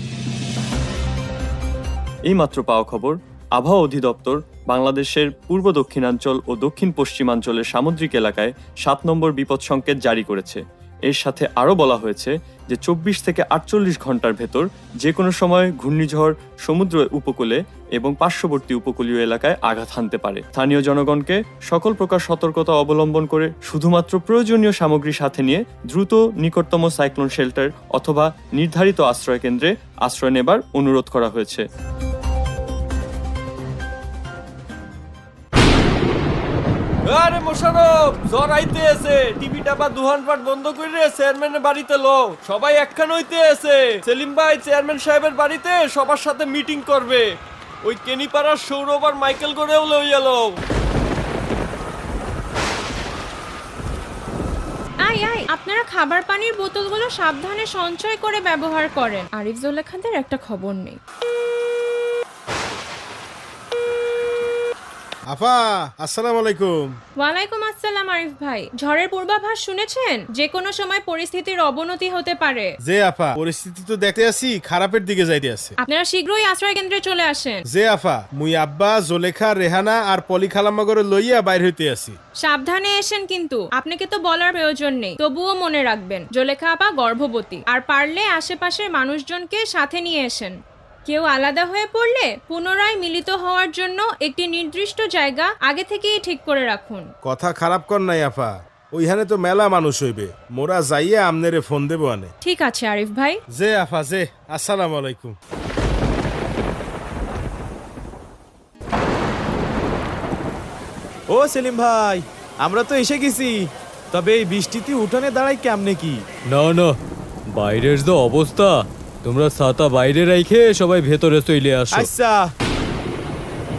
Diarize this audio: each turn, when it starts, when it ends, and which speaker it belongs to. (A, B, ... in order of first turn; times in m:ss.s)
0:02.3-0:31.6 A
0:37.0-0:47.2 A
0:47.8-0:50.5 A
0:55.0-1:01.0 B
1:05.3-1:06.7 C
1:07.2-1:12.7 B
1:12.8-1:15.7 C
1:15.8-1:17.6 B
1:17.7-1:22.2 C
1:22.4-1:30.5 B
1:31.0-1:37.1 B
1:37.2-1:42.3 C
1:42.4-1:43.4 B
1:43.5-1:45.4 C
1:51.3-1:53.5 D
1:54.1-1:56.2 D
1:56.5-1:56.9 E
1:57.5-2:02.1 E
2:01.9-2:02.4 D